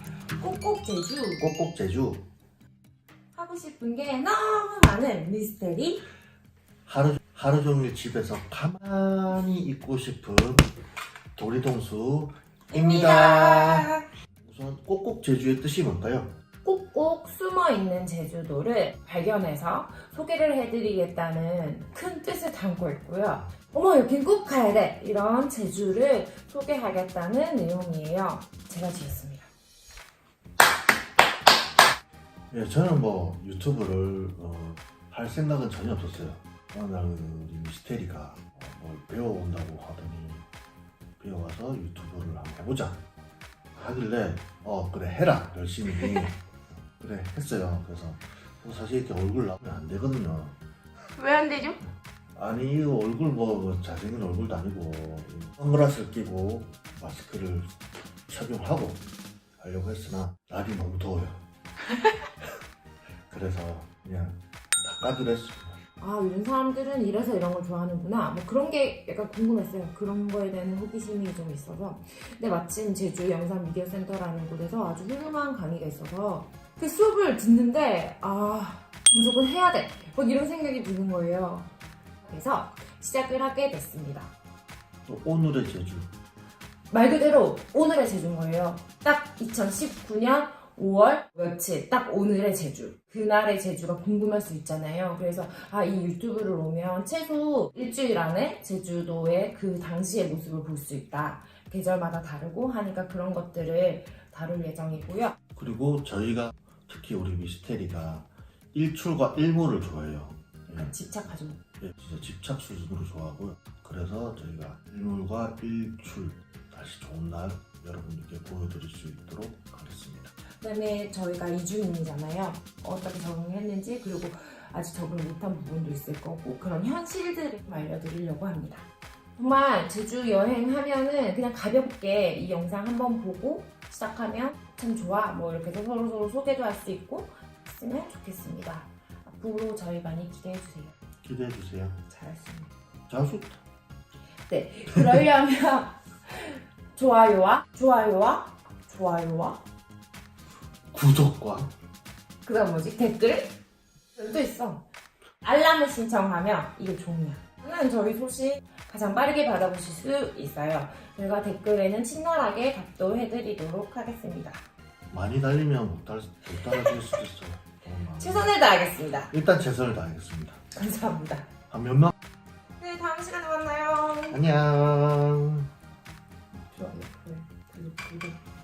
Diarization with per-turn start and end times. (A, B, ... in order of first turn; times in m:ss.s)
0:00.4-0:01.4 A
0:01.4-0:02.3 B
0:03.4-0:06.0 A
0:06.9-0:10.7 B
0:11.4-0:16.3 B
0:12.7-0:14.0 A
0:16.6-0:29.5 A
0:32.5-0:40.5 B
0:41.2-0:43.0 B
0:43.7-0:46.4 B
0:46.0-0:46.2 A
0:47.0-0:50.6 B
0:51.2-0:51.8 A
0:52.4-0:57.8 B
0:58.3-0:59.0 B
0:59.6-1:01.4 B
1:03.3-1:05.8 B
1:06.0-1:21.7 A
1:22.3-1:24.3 A
1:25.1-1:26.1 B
1:26.9-1:45.4 A
1:45.6-1:50.9 B
1:50.7-1:51.6 A
1:51.8-2:00.3 B
2:00.6-2:20.9 A
2:21.2-2:22.0 B
2:22.1-2:22.7 A
2:23.1-2:23.6 B
2:24.5-2:29.6 A
2:30.9-2:31.7 B
2:32.4-2:33.6 A
2:34.1-2:34.8 A
2:35.4-2:44.6 A
2:45.1-2:48.5 B
2:46.7-2:47.0 A
2:48.2-2:49.3 A
2:49.3-2:50.6 B
2:50.7-2:51.5 A
2:51.7-2:52.1 B
2:52.8-2:54.4 A
2:54.3-2:55.7 B
2:56.7-2:58.4 A